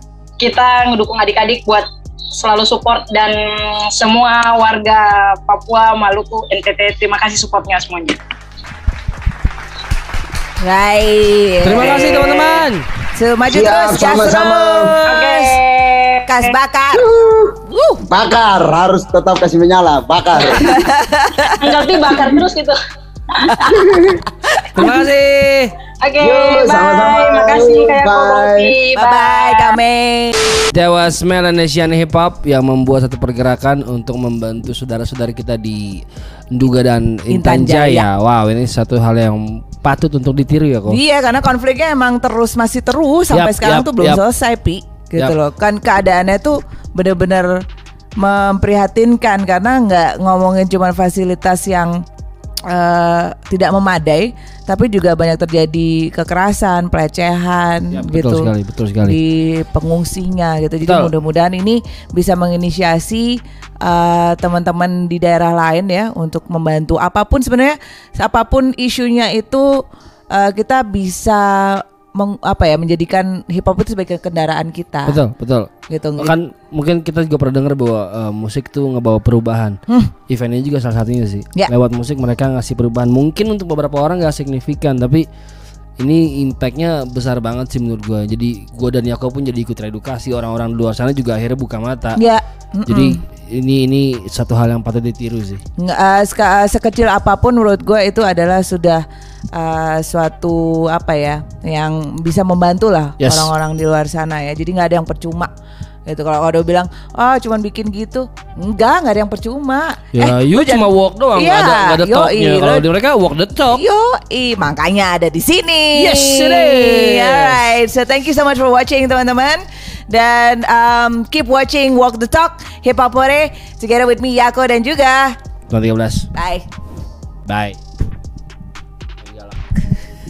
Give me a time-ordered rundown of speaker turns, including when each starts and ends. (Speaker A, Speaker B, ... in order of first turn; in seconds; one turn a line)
Speaker A: 0.4-8.2
Speaker B: 10.6-15.6
Speaker C: 11.6-12.8
Speaker D: 13.5-14.9
Speaker A: 15.1-16.6
Speaker B: 16.3-17.1
Speaker D: 17.0-20.8
Speaker B: 17.7-18.0
Speaker B: 20.5-21.8
Speaker A: 21.6-22.8
Speaker A: 23.3-23.8
Speaker D: 23.6-24.2
Speaker B: 24.5-24.9
Speaker C: 24.8-25.8
Speaker A: 26.0-29.8
Speaker D: 26.2-28.8
Speaker B: 29.0-30.4
Speaker C: 30.7-41.0
Speaker B: 37.3-38.1
Speaker B: 40.9-47.6
Speaker C: 43.3-44.2
Speaker B: 48.2-52.0
Speaker B: 52.7-58.5
Speaker C: 57.9-59.2
Speaker B: 59.0-69.8
Speaker C: 60.9-61.1
Speaker B: 70.3-75.2
Speaker C: 75.1-85.3
Speaker B: 75.9-76.3
Speaker C: 86.0-92.2
Speaker B: 92.2-93.2
Speaker C: 92.9-95.6
Speaker B: 95.8-99.0
Speaker B: 99.5-105.5
Speaker C: 103.2-103.5
Speaker B: 106.1-112.8
Speaker C: 110.1-113.8
Speaker B: 113.7-125.4
Speaker C: 115.9-117.6
Speaker C: 125.7-126.3
Speaker B: 126.3-126.7
Speaker C: 127.5-127.8
Speaker C: 129.2-129.6